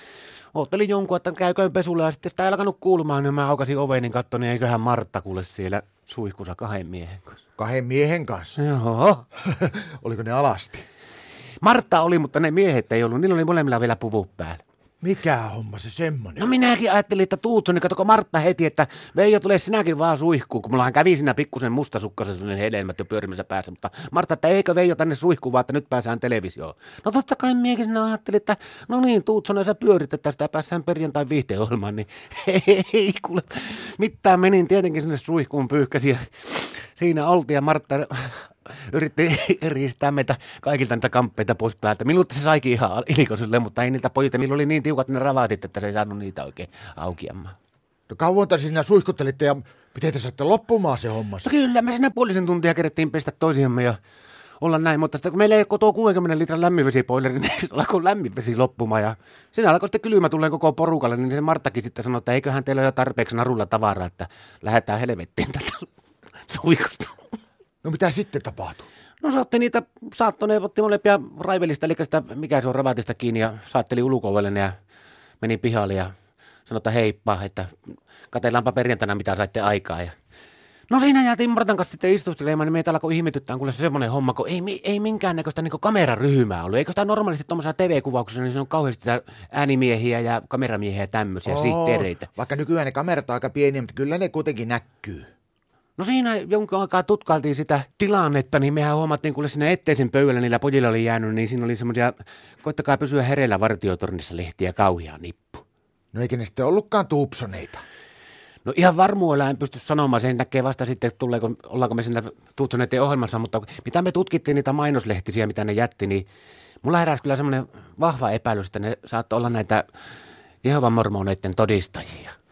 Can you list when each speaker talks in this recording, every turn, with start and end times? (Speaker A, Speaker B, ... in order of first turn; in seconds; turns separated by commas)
Speaker A: 0.5-7.4, Speaker B: 7.6-8.6, Speaker A: 8.6-9.2, Speaker B: 9.4-10.8, Speaker A: 11.6-14.6, Speaker B: 15.0-16.5, Speaker A: 16.4-47.5, Speaker B: 48.1-51.5, Speaker A: 51.4-54.0, Speaker A: 54.6-65.9, Speaker A: 66.5-67.2, Speaker B: 67.8-68.9, Speaker A: 69.2-74.7, Speaker A: 75.4-76.1, Speaker A: 76.7-77.7, Speaker A: 78.3-80.2, Speaker A: 80.9-92.3, Speaker B: 91.5-95.3, Speaker A: 96.0-105.6, Speaker B: 106.1-107.8, Speaker A: 108.6-116.2, Speaker A: 116.8-119.8, Speaker A: 120.6-122.4